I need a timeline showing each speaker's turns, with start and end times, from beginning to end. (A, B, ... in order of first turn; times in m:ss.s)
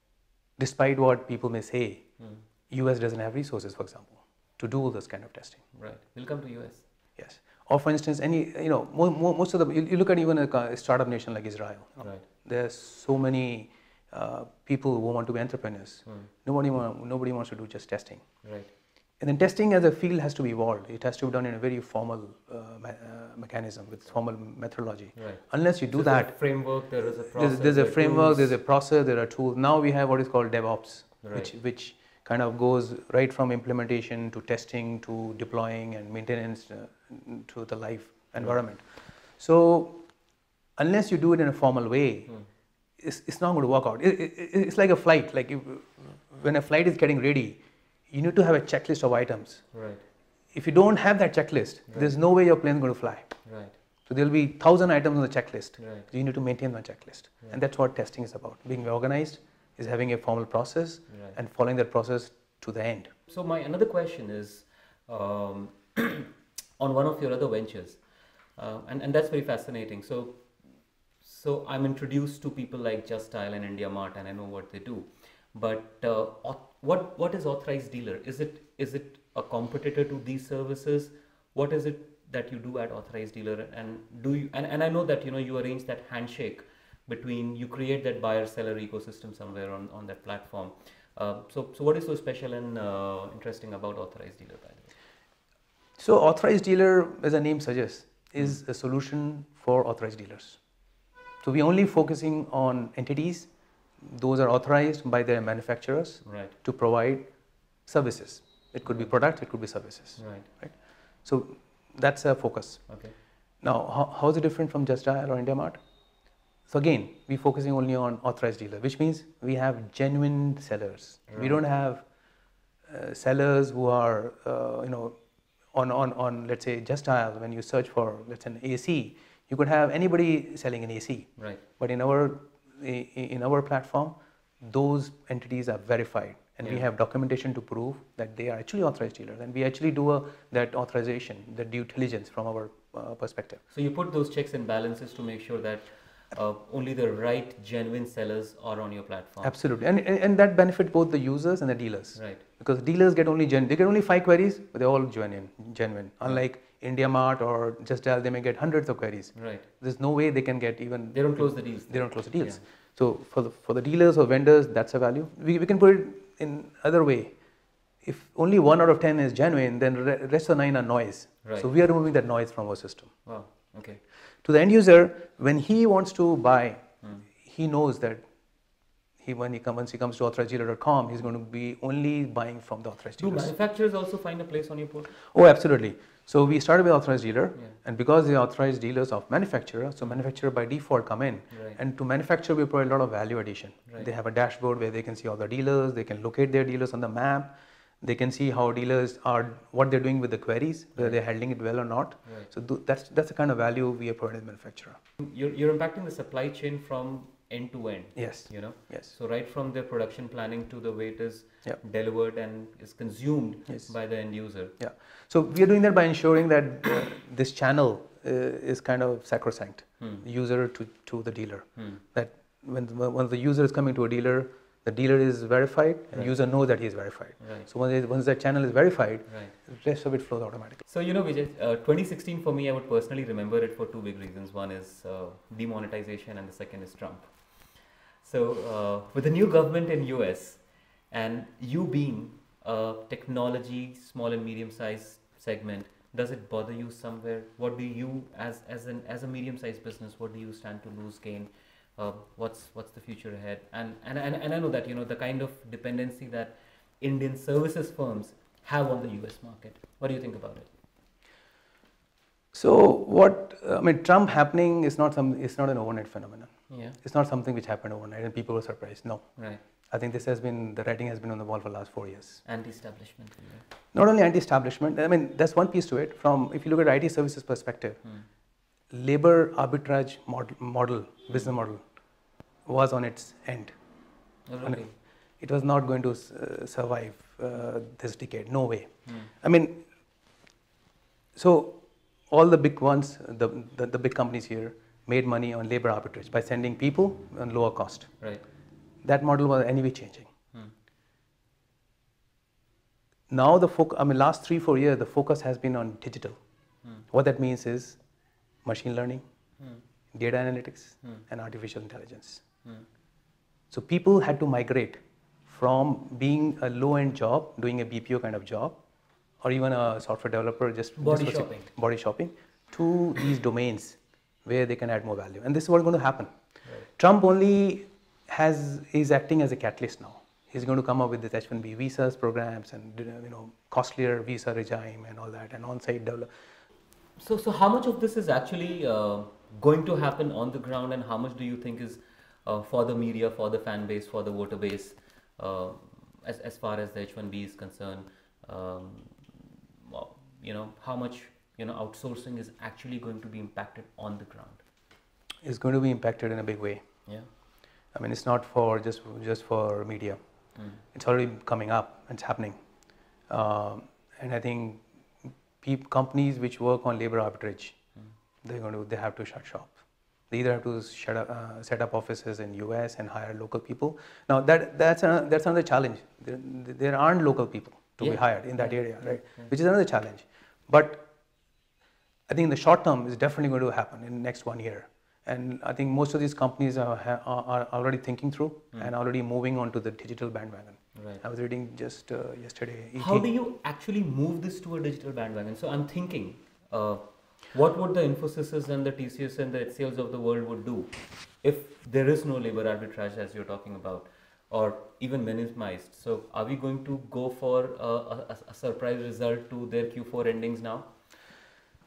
0:00.6-0:02.1 A
0:02.2-0:02.4 B
0:02.7-0:05.6 A
0:05.7-0:06.8 B
0:07.2-0:18.2 A
0:12.0-0:12.2 B
0:18.4-0:18.7 B
0:19.2-0:26.4 A
0:25.1-0:28.6 B
0:27.3-0:38.8 A
0:31.2-0:31.5 B
0:39.4-0:40.0 A
0:40.8-0:42.3 A
0:43.0-0:49.6 A
0:49.7-0:50.0 B
0:50.5-0:53.3 A
0:51.9-0:52.1 B
0:53.4-0:53.8 B
0:54.1-1:03.1 A
0:55.8-0:56.1 B
1:01.1-1:01.4 B
1:03.3-1:08.0 B
1:08.6-1:10.4 B
1:11.2-1:34.9 B
1:36.0-1:40.6 A
1:41.4-1:43.5 A
1:44.0-1:47.3 A
1:46.2-1:46.5 B
1:47.8-1:52.9 A
1:48.8-1:49.1 B
1:50.2-1:50.5 B
1:52.9-1:53.1 B
1:53.6-1:55.8 A
1:56.7-2:02.0 A
2:01.3-2:01.6 B
2:02.9-2:05.2 A
2:05.7-2:23.6 A
2:11.4-2:11.6 B
2:23.7-2:29.6 B
2:29.4-2:47.3 A
2:32.1-2:32.4 B
2:39.3-2:39.6 B
2:41.1-2:42.6 B
2:48.0-2:53.1 A
2:53.2-2:54.0 B
2:54.4-2:58.2 A
2:59.2-3:03.5 A
3:03.2-3:05.2 B
3:05.3-3:25.0 A
3:11.5-3:11.8 B
3:21.0-3:21.2 B
3:25.2-3:34.7 B
3:28.2-3:29.1 A
3:34.8-3:50.8 A
3:41.8-3:42.0 B
3:47.4-3:47.7 B
3:49.3-3:49.6 B
3:50.8-4:20.7 B
4:22.5-4:29.3 A
4:26.7-4:27.0 B
4:29.4-4:29.6 B
4:29.9-4:32.4 A
4:32.4-4:33.6 B
4:33.9-4:38.0 A
4:38.9-4:41.8 A
4:42.6-4:43.7 A
4:44.5-4:44.9 B
4:45.4-4:49.8 A
4:49.0-4:49.3 B
4:51.4-4:58.2 A
4:59.0-5:00.3 A
5:03.3-5:06.4 A
5:07.1-5:08.0 A
5:08.6-5:09.2 A
5:10.1-5:12.4 A
5:13.7-5:18.8 A
5:19.4-5:26.3 A
5:21.0-5:21.7 B
5:27.0-5:36.3 A
5:37.2-5:54.6 B
5:55.4-5:56.8 A
5:57.9-6:00.2 A
6:00.9-6:02.6 A
6:03.3-6:04.8 A
6:05.6-6:07.8 A
6:08.4-6:09.8 A
6:10.3-6:21.0 A
6:18.0-6:19.5 B
6:22.3-6:33.3 A
6:30.9-6:31.2 B
6:33.0-6:50.9 B